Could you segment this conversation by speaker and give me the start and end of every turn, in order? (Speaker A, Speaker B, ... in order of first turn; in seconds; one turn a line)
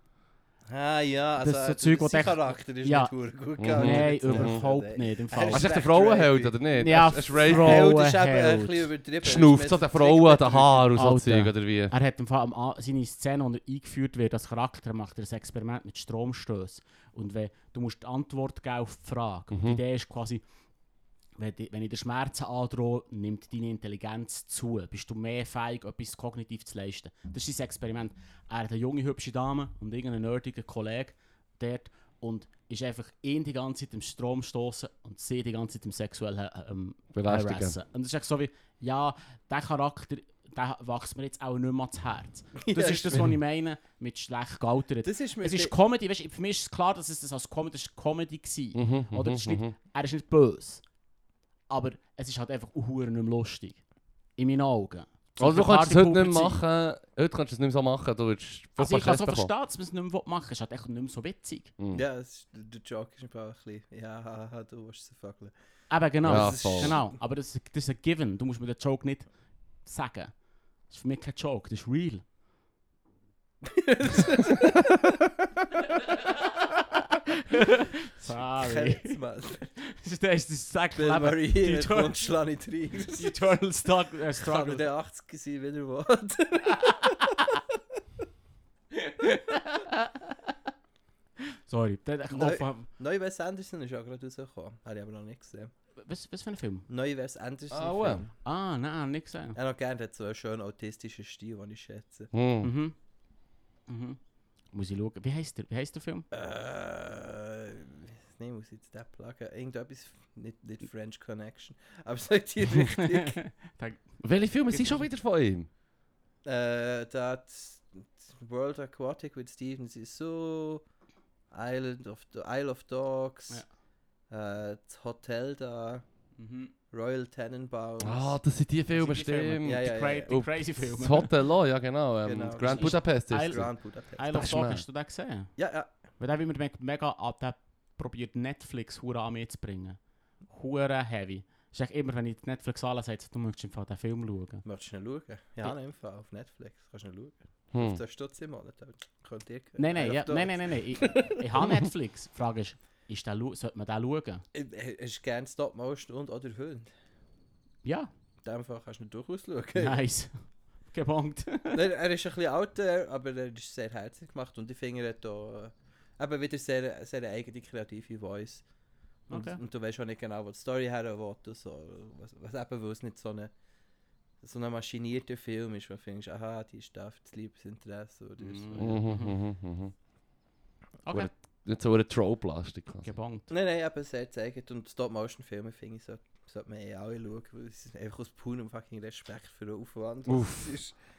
Speaker A: 0.7-6.5
Speaker B: 1.4-3.1
Speaker C: 3.6-4.6
Speaker B: 3.7-5.7
Speaker C: 5.4-7.9
Speaker B: 6.8-8.9
Speaker A: 7.4-10.9
Speaker C: 9.2-11.9
Speaker B: 10.9-20.4
Speaker C: 19.5-19.8
Speaker B: 21.4-50.8
Speaker C: 37.1-37.7
Speaker A: 42.6-43.3
Speaker A: 45.0-45.7
Speaker C: 48.7-49.7
Speaker B: 51.7-53.8
Speaker B: 54.4-56.6
Speaker C: 55.4-59.5
Speaker B: 58.8-61.7
Speaker C: 61.8-62.0
Speaker A: 61.9-65.5
Speaker B: 65.9-72.2
Speaker A: 66.2-67.0
Speaker C: 66.2-67.0
Speaker A: 73.6-75.2
Speaker B: 77.5-79.2
Speaker A: 78.6-79.7
Speaker B: 79.8-82.2
Speaker A: 81.0-83.3
Speaker B: 83.1-84.8
Speaker A: 84.4-87.4
Speaker B: 86.8-87.2
Speaker B: 89.0-90.1
Speaker B: 91.7-92.9
Speaker A: 92.3-95.7
Speaker B: 96.0-96.9
Speaker A: 96.9-98.3
Speaker C: 97.7-98.2
Speaker B: 98.4-99.6
Speaker A: 99.5-102.3
Speaker C: 102.3-102.7
Speaker B: 102.6-103.0
Speaker B: 103.9-104.2
Speaker B: 104.7-106.3
Speaker A: 106.3-113.4
Speaker B: 112.9-115.1
Speaker C: 114.2-115.7
Speaker A: 116.4-120.8
Speaker A: 121.5-123.6
Speaker A: 124.3-126.0
Speaker B: 126.4-126.7
Speaker A: 126.9-128.4
Speaker C: 128.0-133.7
Speaker B: 128.9-131.3
Speaker A: 129.6-130.4
Speaker A: 132.2-134.3
Speaker B: 132.6-133.6
Speaker B: 134.2-135.6
Speaker C: 134.3-134.8
Speaker A: 135.6-135.9
Speaker B: 136.2-144.6
Speaker A: 144.6-151.6
Speaker C: 147.7-148.0
Speaker B: 149.8-154.4
Speaker A: 154.5-156.9
Speaker B: 157.8-158.1
Speaker A: 158.4-160.0
Speaker B: 159.8-161.8
Speaker A: 161.7-168.7
Speaker B: 169.3-169.6
Speaker A: 169.3-173.5
Speaker A: 174.4-179.0
Speaker B: 178.4-179.4
Speaker C: 178.8-179.9
Speaker B: 181.0-181.3
Speaker C: 181.1-183.1
Speaker B: 183.0-183.5
Speaker A: 183.5-190.9
Speaker C: 190.3-190.8